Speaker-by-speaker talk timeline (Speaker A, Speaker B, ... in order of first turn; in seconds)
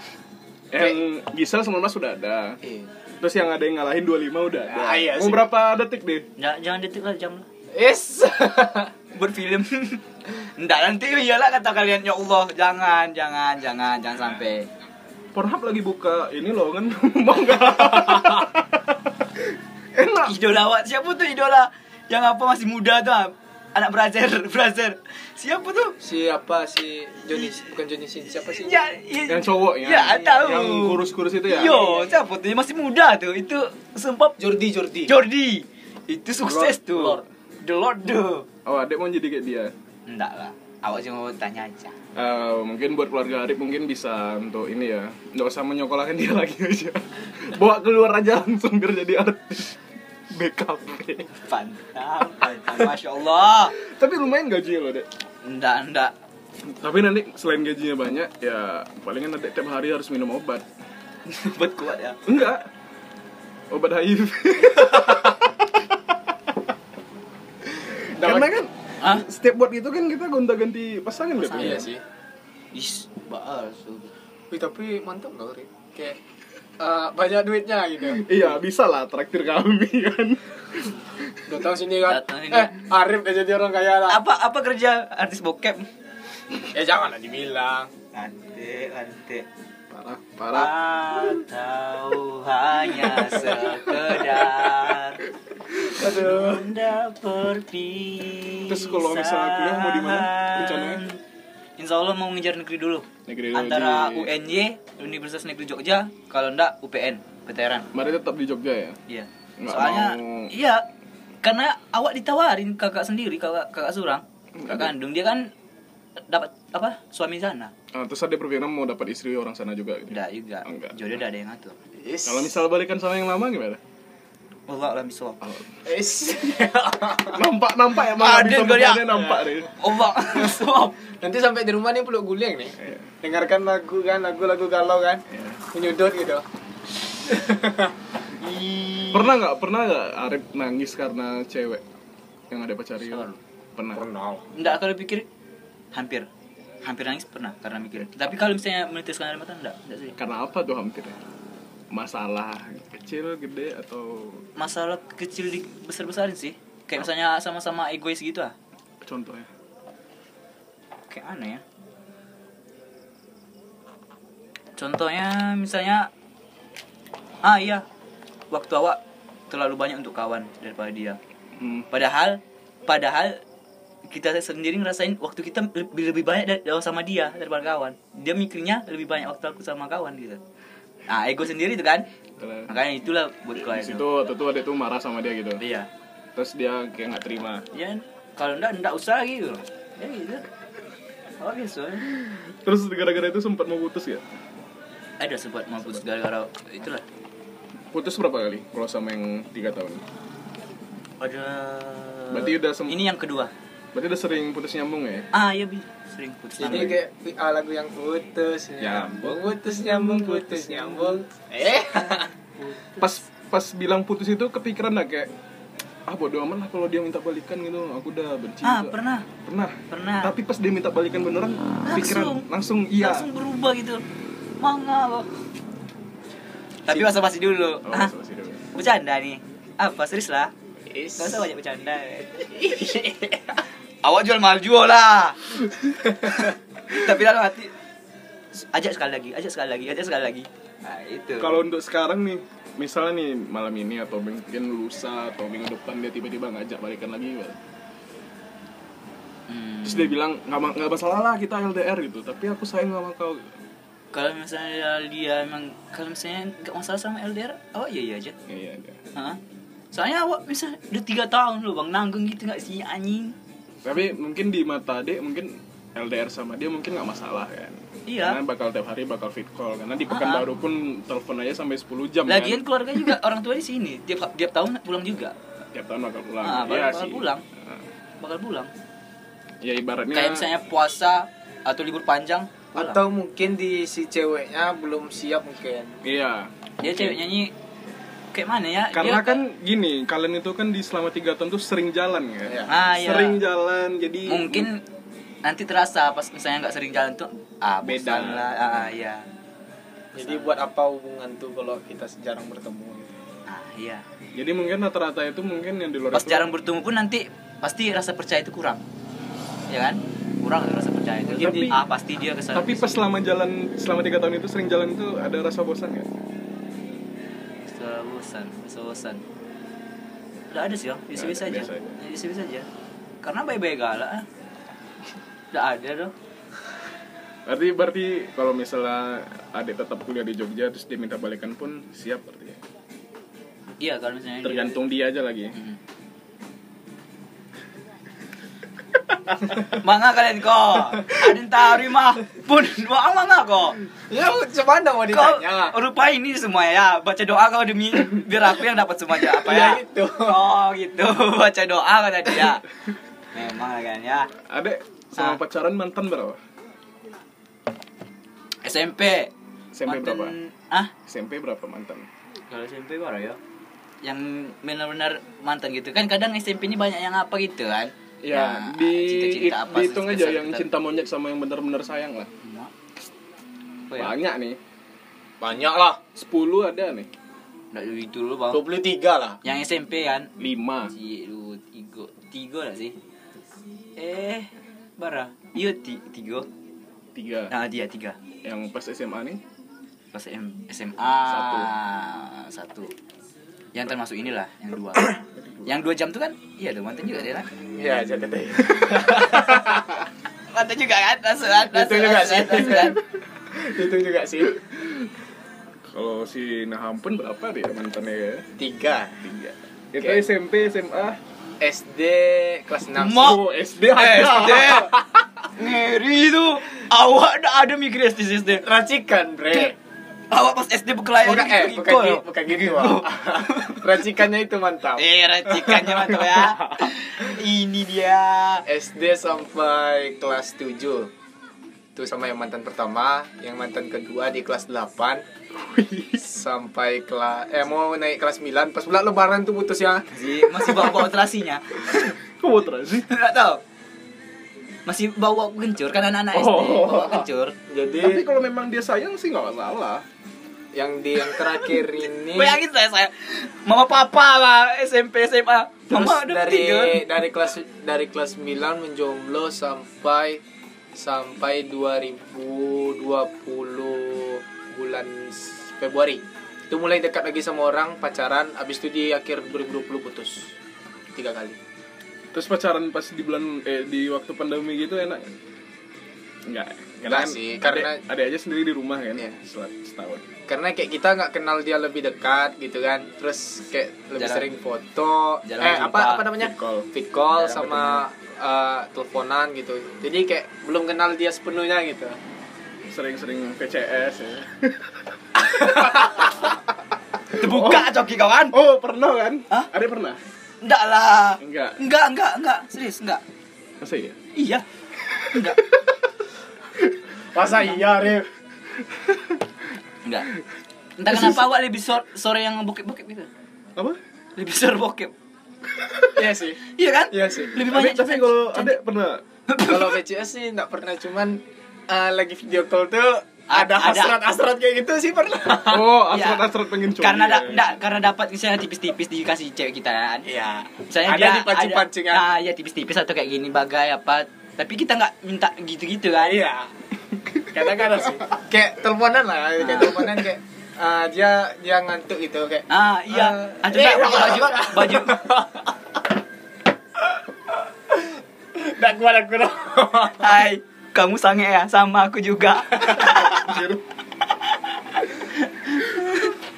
Speaker A: 0.7-2.6, 3.1-6.3, 15.3-19.4, 19.9-20.4, 29.3-31.8, 38.6-39.7, 42.1-49.8, 50.3-51.3, 53.8-55.1, 56.6-60.6, 62.2-62.7, 63.7-66.3, 67.8-71.9, 78.0-81.6, 89.9-90.7, 93.0-95.0, 98.7-101.0, 103.2-104.3, 107.9-109.0, 109.6-110.5, 114.6-114.9, 117.9-121.2, 122.2-123.8, 125.4-125.8, 127.2-129.7, 132.8-133.1, 135.3-135.6, 139.1-141.8, 142.5-144.0, 150.2-151.2, 151.9-154.4, 159.0-159.5, 171.6-171.9, 182.4-182.8, 183.5-185.6, 186.3-187.7, 192.1-194.3, 197.9-200.0, 202.3-203.0, 203.9-205.3, 206.6-206.9, 208.8-211.2, 213.0-215.3, 216.1-223.3, 226.9-227.2, 227.8-228.7, 241.4-247.6, 249.8-253.5, 258.5-259.0, 263.8-273.1, 275.7-277.8, 279.6-280.5, 286.0-287.2, 288.9-294.7, 297.8-298.9, 304.3-306.5, 311.3-311.7, 312.5-316.1, 321.1-322.0, 327.4-332.6, 334.4-335.6, 354.4-356.4, 359.7-360.3, 361.1-362.1, 368.2-372.3, 373.9-374.6, 376.1-377.1, 380.4-380.9, 387.1-387.5, 388.4-389.4, 391.2-391.7, 395.1-395.7, 405.9-408.4, 409.2-411.2, 413.2-414.9, 426.1-426.9, 435.5-436.2, 441.8-443.1, 446.3-447.3, 448.0-450.0, 472.3-475.3, 476.4-480.2, 486.4-486.9, 492.9-495.0, 496.0-496.3, 497.3-500.2, 501.4-501.8, 503.8-504.2, 505.1-505.7, 508.9-509.4, 511.1-511.4, 517.6-519.2, 525.7-527.8, 553.0-553.8
Speaker B: 2.6-2.9, 4.7-5.5, 7.7-8.9, 26.0-28.8, 30.2-30.5, 31.6-32.1, 34.4-35.1, 36.5-37.2, 68.1-68.5, 71.5-72.0, 74.5-76.2, 76.8-78.4, 81.5-84.2, 86.6-87.9, 95.8-96.7, 122.0-122.6, 125.8-127.4, 129.1-129.5, 131.2-136.4, 137.2-137.9, 138.4-139.2, 143.9-144.5, 206.6-212.3, 230.9-231.4, 232.6-233.5, 282.7-286.0, 300.1-303.1, 311.2-311.8, 344.1-345.8, 349.2-350.5, 375.4-376.0, 378.5-379.4, 397.8-400.0, 401.7-403.0, 403.5-404.6, 408.6-409.2, 411.6-413.5, 414.1-415.0, 418.6-419.8, 421.2-426.0, 428.7-431.1, 431.9-435.2, 436.2-440.1, 447.7-448.2, 450.7-452.6, 455.9-460.4, 460.9-470.5, 471.1-471.6, 477.1-478.0, 480.5-492.2, 495.5-496.2, 507.3-508.3, 516.1-517.6, 519.6-525.9, 530.3-532.3, 536.2-536.7, 537.5-545.7, 547.9-550.5, 552.8-553.1
Speaker C: 6.4-7.5, 9.1-14.7, 20.2-25.9, 28.6-34.4, 35.0-38.5, 40.1-42.0, 51.4-53.7, 55.4-56.1, 61.2-62.3, 69.0-69.2, 71.4-71.9, 72.7-74.1, 82.0-82.8, 84.1-85.9, 88.1-89.5, 90.5-95.2, 96.0-101.2, 101.8-107.9, 109.1-110.8, 111.4-115.5, 116.3-117.7, 120.1-121.8, 124.7-125.4, 128.1-131.0, 143.0-143.4, 144.5-145.3, 145.9-146.3, 146.8-150.2, 154.6-158.5, 161.1-161.6, 164.8-166.1, 167.4-167.8, 168.5-171.2, 171.9-173.4, 174.1-180.4, 181.1-182.1, 182.7-184.1, 185.6-185.9, 187.7-190.4, 191.4-192.2, 195.2-197.0, 201.2-203.5, 205.3-207.0, 218.6-219.3, 219.9-220.3, 221.8-224.0, 224.6-225.3, 226.8-228.1, 228.7-230.5, 231.2-232.9, 234.0-235.4, 236.1-237.7, 238.5-241.6, 249.5-250.1, 254.1-258.3, 259.9-263.4, 268.1-268.4, 270.1-270.4, 272.3-275.3, 276.4-277.4, 278.2-278.7, 280.1-283.0, 286.8-287.5, 288.3-289.4, 292.7-293.4, 294.2-294.8, 295.4-299.2, 300.1-300.6, 303.5-304.0, 306.1-308.8, 309.7-313.0, 317.6-319.2, 320.5-322.7, 323.2-324.3, 325.5-326.1, 333.8-334.8, 339.5-343.8, 345.1-352.6, 353.3-354.3, 358.6-359.3, 359.9-360.9, 362.5-363.4, 364.0-370.7, 372.4-372.7, 373.9-374.1, 377.7-378.6, 379.4-380.3, 380.9-383.0, 384.0-386.5, 387.5-388.2, 390.1-392.9, 393.7-395.1, 395.6-397.5, 400.5-403.0, 412.9-414.9, 415.5-418.6, 420.3-423.8, 425.0-428.6, 440.1-442.1, 443.0-443.6, 444.9-447.6, 452.3-457.0, 484.2-484.5, 485.4-486.3, 487.4-488.0, 497.3-498.6, 500.6-503.2, 504.3-504.6, 505.3-505.6, 510.0-510.3, 511.0-513.3, 514.4-515.1, 516.6-518.8, 519.5-519.9, 523.5-524.2, 526.1-536.4, 539.6-540.0, 542.7-545.2, 550.1-553.6, 555.1-556.3